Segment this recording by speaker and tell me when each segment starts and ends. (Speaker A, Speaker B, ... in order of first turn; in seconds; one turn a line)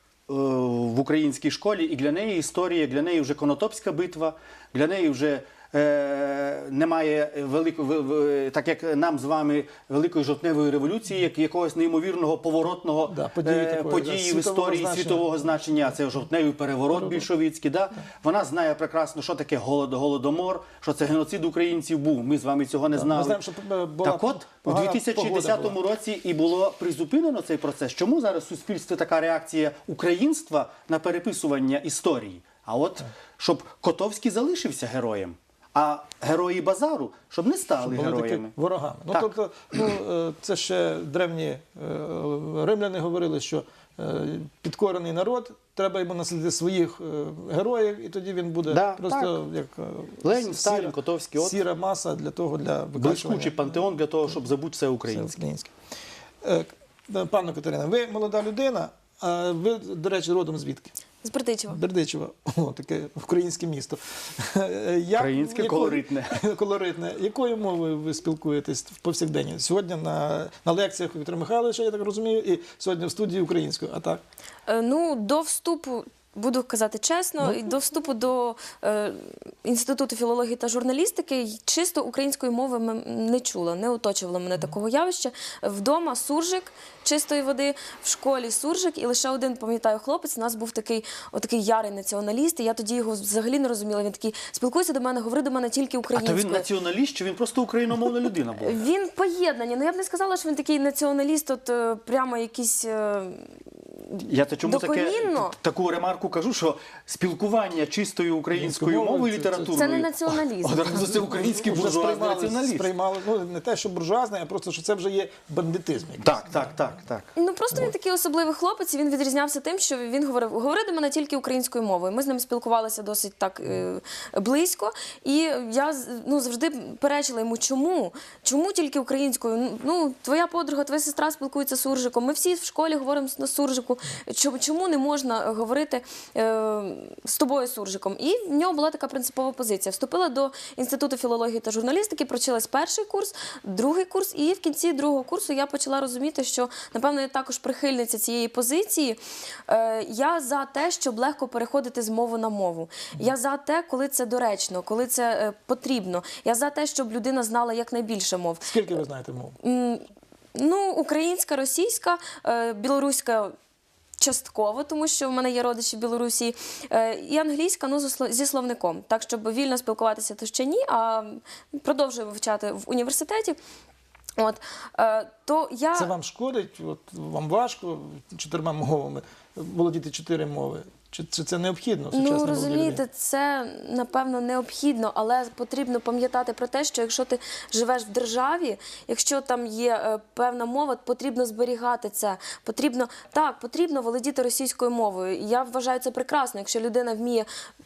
Speaker A: 0.3-23.4
Speaker B: 13.1-16.0
Speaker B: 16.9-17.3
Speaker B: 22.9-25.8
Speaker A: 24.0-38.5
Speaker B: 37.8-54.4
Speaker A: 48.7-49.4
Speaker A: 50.2-51.6
Speaker A: 53.0-55.4
Speaker B: 55.1-55.7
Speaker B: 56.4-60.9
Speaker C: 61.2-61.8
Speaker B: 61.7-74.2
Speaker A: 65.2-66.4
Speaker C: 74.7-96.7
Speaker A: 96.1-98.8
Speaker C: 98.6-105.5
Speaker A: 104.2-112.9
Speaker B: 108.5-109.8
Speaker C: 109.7-111.1
Speaker B: 111.2-116.8
Speaker A: 116.2-117.3
Speaker C: 117.4-158.9
Speaker B: 158.6-159.6
Speaker C: 159.6-163.5
Speaker C: 164.2-173.6
Speaker C: 174.4-176.1
Speaker B: 176.0-183.0
Speaker C: 182.1-197.5